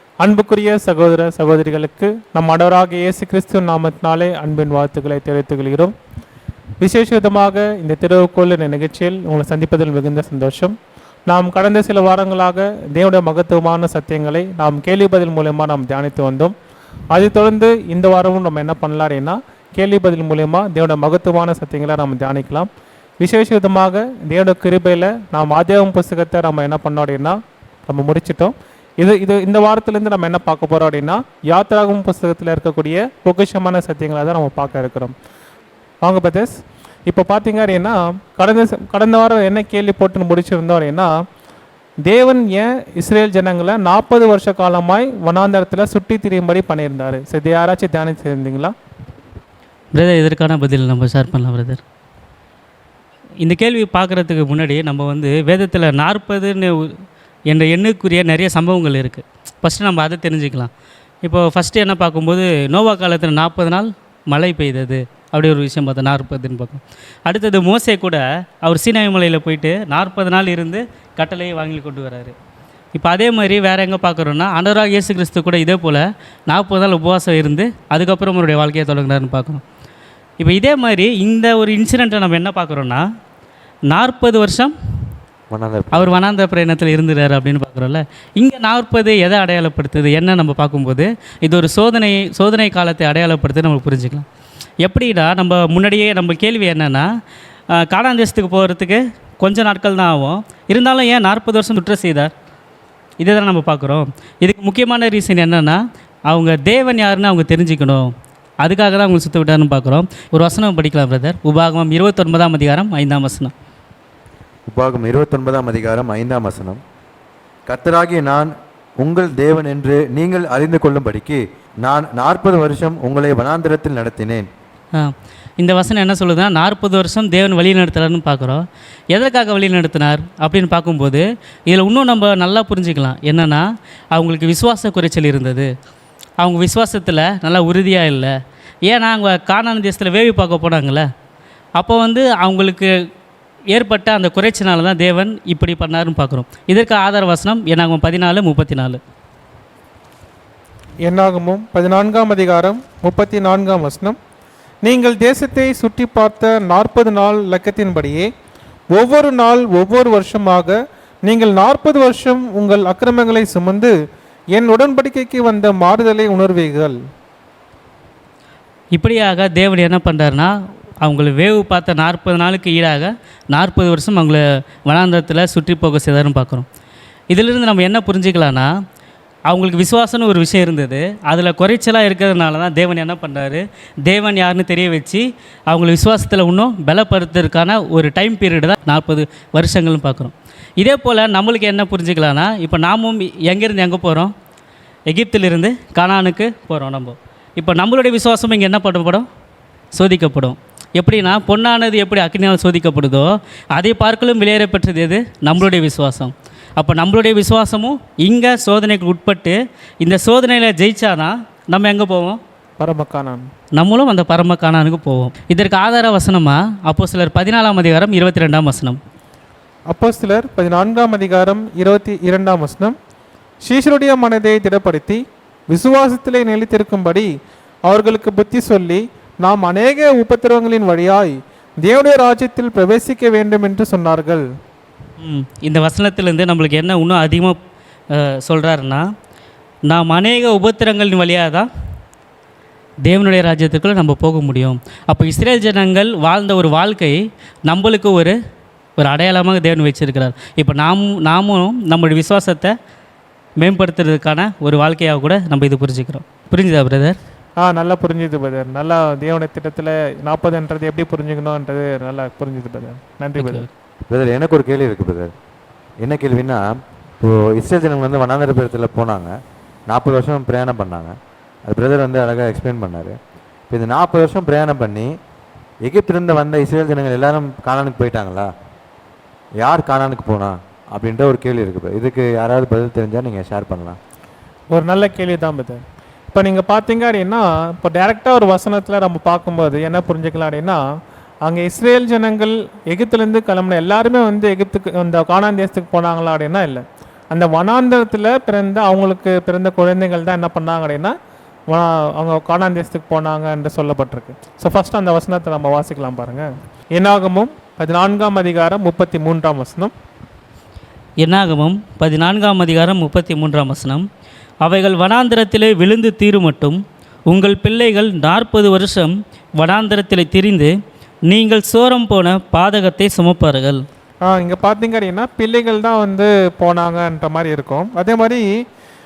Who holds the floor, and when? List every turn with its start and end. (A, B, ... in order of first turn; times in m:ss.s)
0:00.2-0:05.9 A
0:06.8-0:10.8 A
0:11.3-0:16.5 A
0:17.1-0:22.7 A
0:23.2-0:27.4 A
0:27.9-0:35.1 A
0:36.0-0:36.5 A
0:37.1-0:41.1 A
0:42.0-0:48.7 A
0:49.9-0:51.8 B
0:53.4-0:57.0 B
0:57.5-1:00.7 B
1:01.2-1:12.4 B
1:13.0-1:19.6 B
1:20.4-1:23.0 B
1:23.9-1:24.7 B
1:25.5-1:26.2 C
1:25.9-1:34.2 B
1:34.8-1:37.1 B
1:37.7-1:42.3 B
1:43.2-1:53.5 B
1:54.7-1:56.8 C
1:57.7-2:04.5 C
2:05.0-2:15.7 B
2:16.4-2:18.3 B
2:18.9-2:21.1 B
2:21.8-2:22.9 B
2:23.7-2:29.0 B
2:31.0-2:34.2 A
2:34.8-2:38.3 A
2:38.9-2:43.9 A
2:44.5-2:47.0 A
2:49.0-2:56.7 B
2:57.3-2:58.7 B
2:59.5-3:14.3 B
3:15.1-3:19.3 B
3:19.9-3:32.4 B
3:32.8-3:33.5 A
3:33.8-3:39.0 B
3:39.9-3:43.0 A
3:43.6-3:47.3 A
3:47.8-3:54.5 A
3:55.2-3:57.6 B
3:58.1-3:59.1 B
3:59.9-4:01.7 B
4:03.1-4:08.4 B
4:09.0-4:12.7 B
4:13.6-4:17.2 B
4:17.6-4:23.7 A
4:23.4-4:23.7 B
4:24.1-4:25.3 C
4:26.0-4:26.7 C
4:27.2-4:29.3 C
4:29.9-4:33.2 C
4:33.7-4:35.1 C
4:35.8-4:38.5 C
4:39.6-4:44.0 C
4:44.7-4:45.8 A
4:46.3-4:50.8 A
4:51.4-5:01.1 A
5:01.7-5:09.9 A
5:11.2-5:14.1 B
5:14.6-5:20.7 B
5:21.3-5:23.8 B
5:24.2-5:28.5 A